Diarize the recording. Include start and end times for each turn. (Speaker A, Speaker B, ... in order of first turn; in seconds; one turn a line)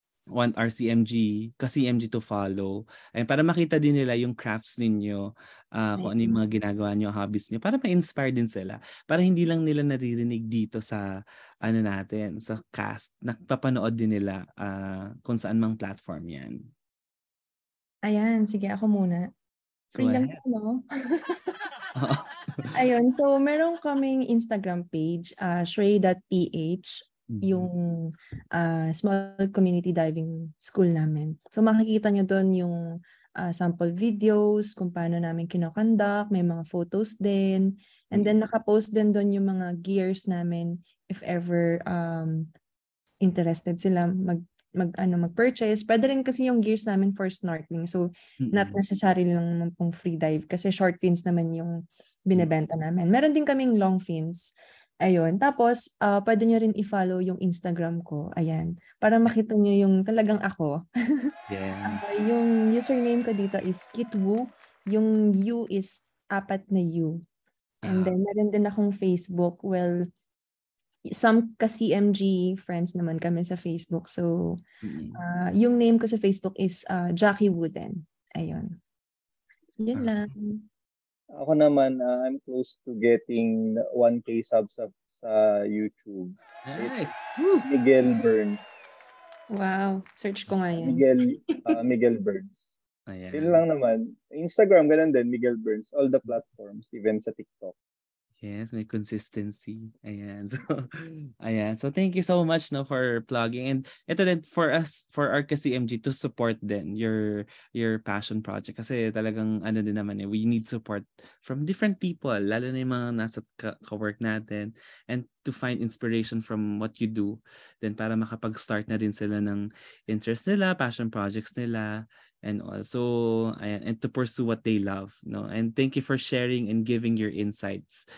Speaker A: 0.3-11.0
Speaker B: 6.0-6.4
Speaker A: 11.6-16.7
Speaker B: 18.1-19.3
Speaker B: 19.9-21.4
Speaker A: 20.0-20.4
Speaker A: 22.0-22.7
Speaker B: 22.7-32.8
Speaker A: 27.3-27.7
Speaker B: 33.4-42.5
Speaker B: 43.2-54.5
Speaker A: 48.4-48.8
Speaker B: 55.0-61.3
Speaker A: 61.5-62.0
Speaker B: 61.9-67.2
Speaker A: 67.8-68.2
Speaker B: 67.8-70.1
Speaker B: 71.1-74.6
Speaker A: 74.8-75.2
Speaker B: 75.1-78.7
Speaker B: 79.8-80.7
Speaker A: 79.9-80.3
Speaker C: 81.3-87.0
Speaker A: 86.7-87.7
Speaker C: 87.6-88.7
Speaker B: 89.5-91.6
Speaker C: 90.8-92.6
Speaker A: 93.1-93.6
Speaker C: 93.3-97.7
Speaker A: 98.4-128.0